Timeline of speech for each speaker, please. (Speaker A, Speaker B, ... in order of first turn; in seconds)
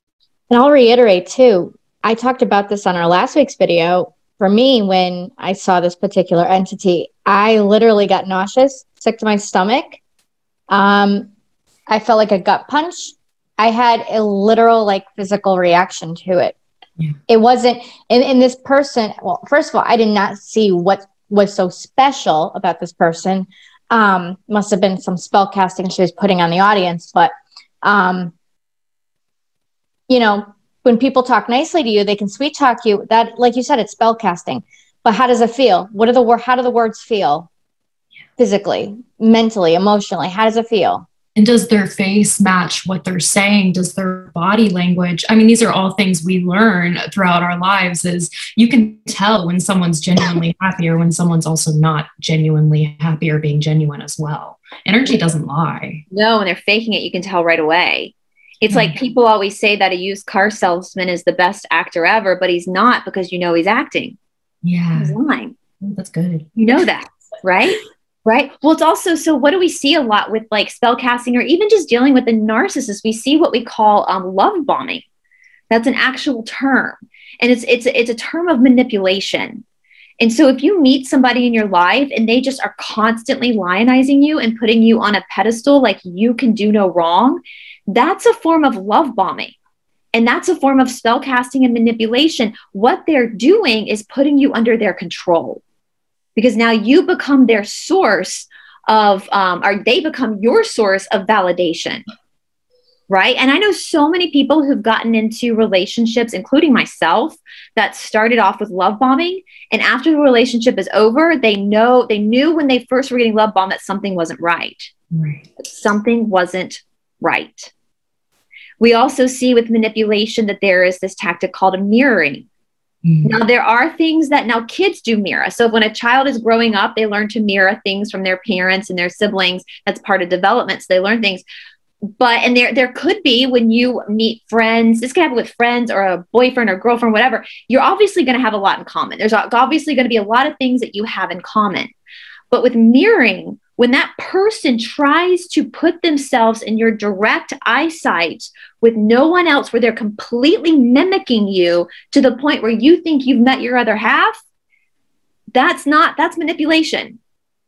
Speaker A: 0.5-10.0, 10.7-11.3, 11.9-16.6, 17.3-28.3, 30.1-37.5, 38.4-41.1
Speaker B: 41.4-56.0, 58.6-58.9, 64.6-65.2, 65.8-66.8, 115.1-115.5, 123.0-123.3
Speaker C: 56.1-58.1, 58.7-64.2, 65.0-65.5, 66.6-75.0, 75.7-79.6, 80.2-89.5, 90.1-95.6, 96.3-102.0, 103.1-114.9, 115.6-117.7, 118.8-122.5, 123.2-131.4, 132.0-141.9, 142.5-154.4, 155.5-157.2